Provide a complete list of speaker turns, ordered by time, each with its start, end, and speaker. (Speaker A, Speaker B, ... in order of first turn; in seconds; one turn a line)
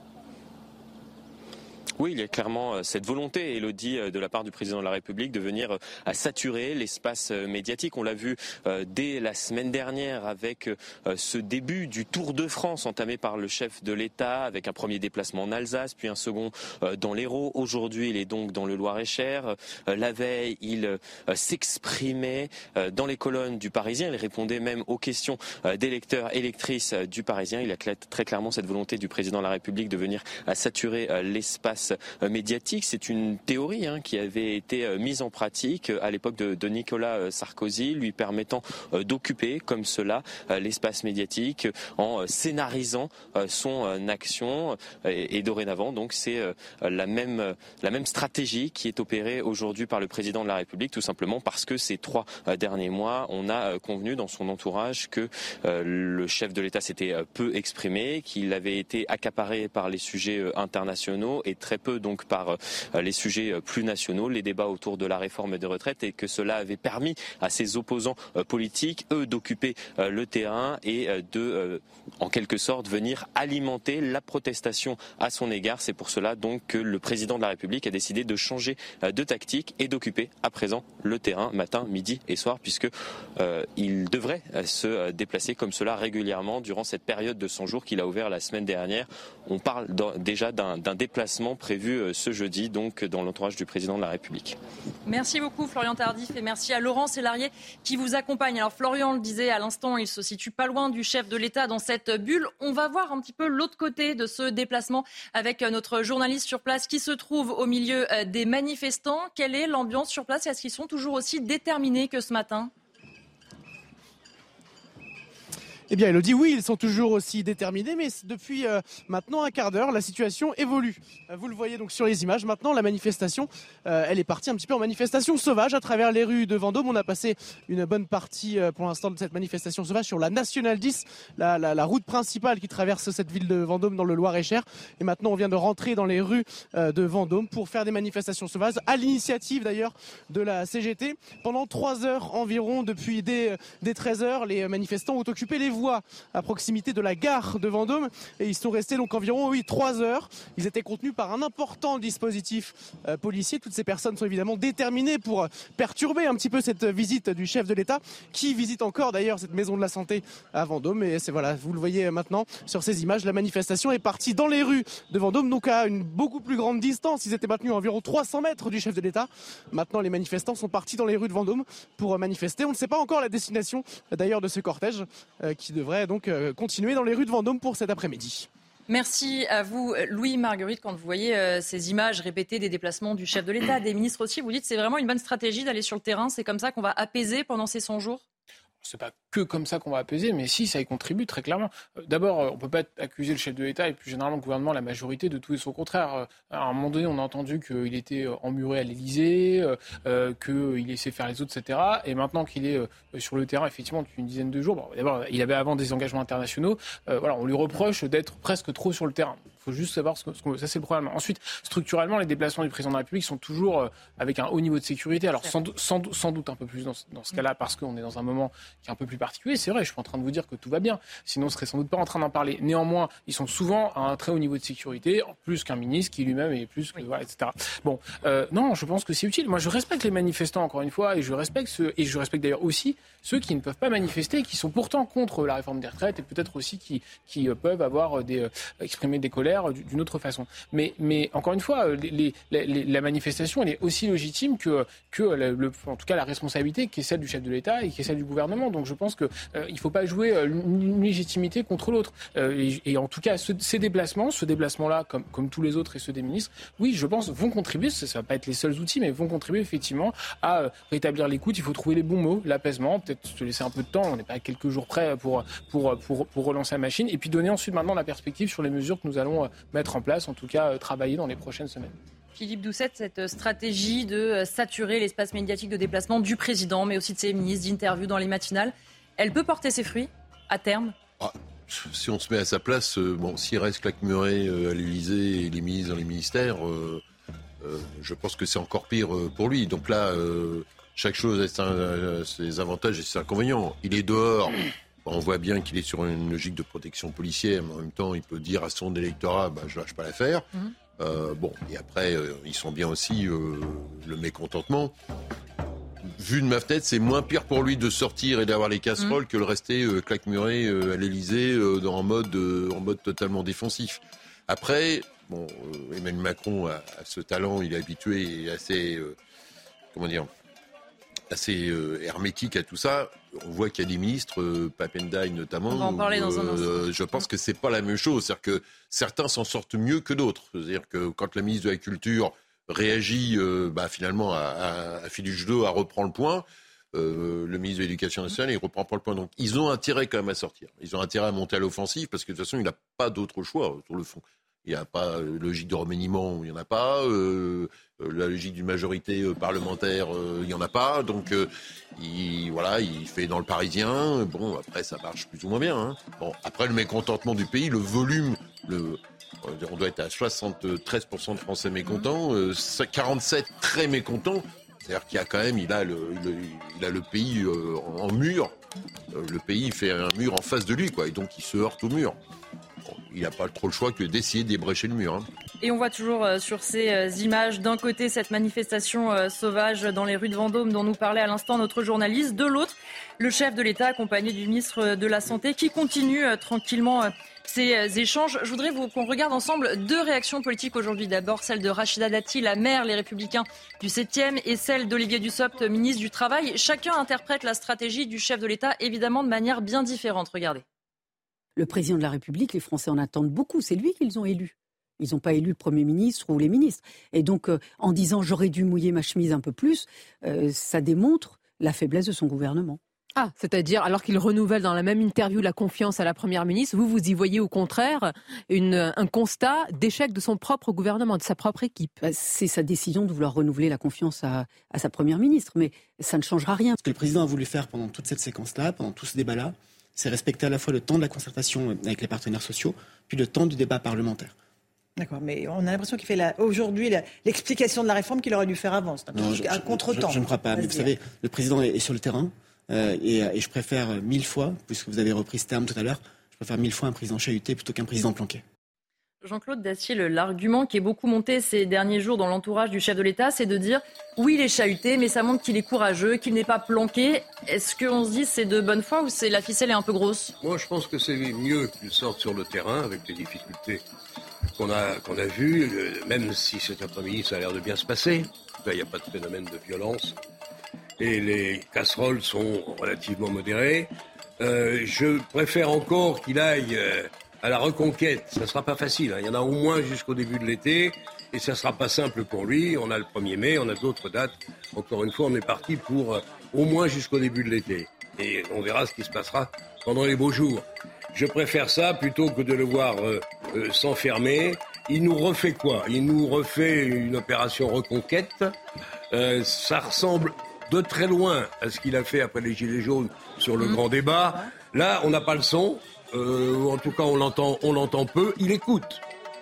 Speaker A: 2.0-94.6
Speaker B: 95.0-112.7
Speaker C: 115.9-178.5
Speaker B: 178.9-188.2
Speaker D: 188.8-272.0
Speaker B: 272.3-280.9
Speaker E: 281.2-287.0
Speaker E: 287.6-300.4
Speaker E: 301.0-304.9
Speaker E: 306.1-319.1
Speaker E: 319.9-320.3
Speaker E: 321.3-368.5
Speaker B: 325.7-327.2
Speaker E: 369.1-372.2
Speaker E: 372.9-375.3
Speaker B: 375.6-400.6
Speaker F: 401.6-412.8
Speaker G: 413.1-422.0
Speaker F: 422.0-426.8
Speaker H: 426.8-434.3
Speaker I: 435.0-440.8
Speaker H: 439.1-448.4
Speaker B: 449.2-460.3
Speaker J: 460.4-463.8
Speaker J: 464.6-470.1
Speaker J: 471.0-498.5
Speaker J: 499.1-509.0